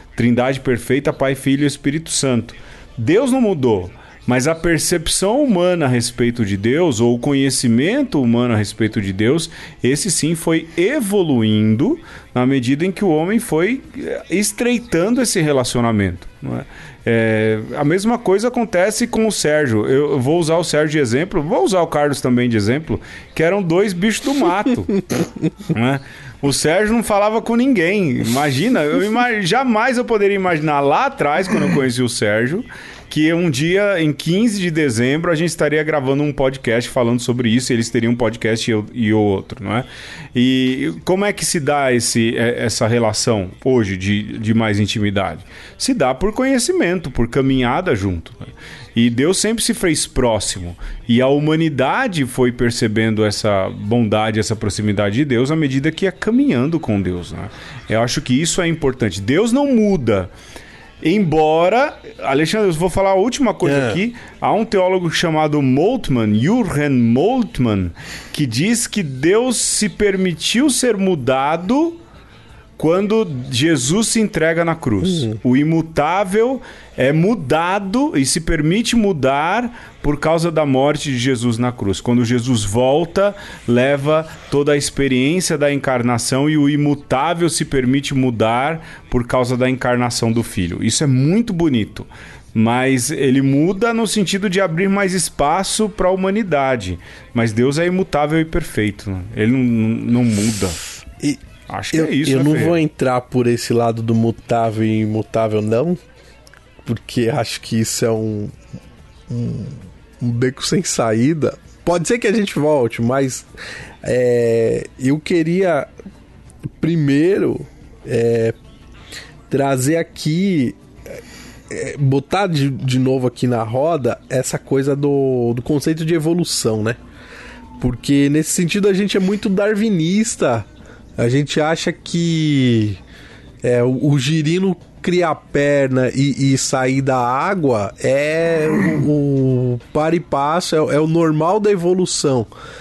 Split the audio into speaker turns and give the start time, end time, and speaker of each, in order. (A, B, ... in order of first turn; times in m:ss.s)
0:00.2-0:25.0 A
0:25.6-1:00.3 A
1:01.0-1:12.0 A
1:03.6-1:04.0 B
1:12.8-1:40.8 A
1:15.0-1:15.4 B
1:41.2-1:46.0 B
1:41.7-1:42.8 A
1:46.8-1:48.5 B
1:49.3-1:53.5 B
1:54.0-1:55.9 B
1:56.8-1:58.6 B
1:59.5-2:07.0 B
2:07.8-2:13.0 B
2:13.6-2:22.5 B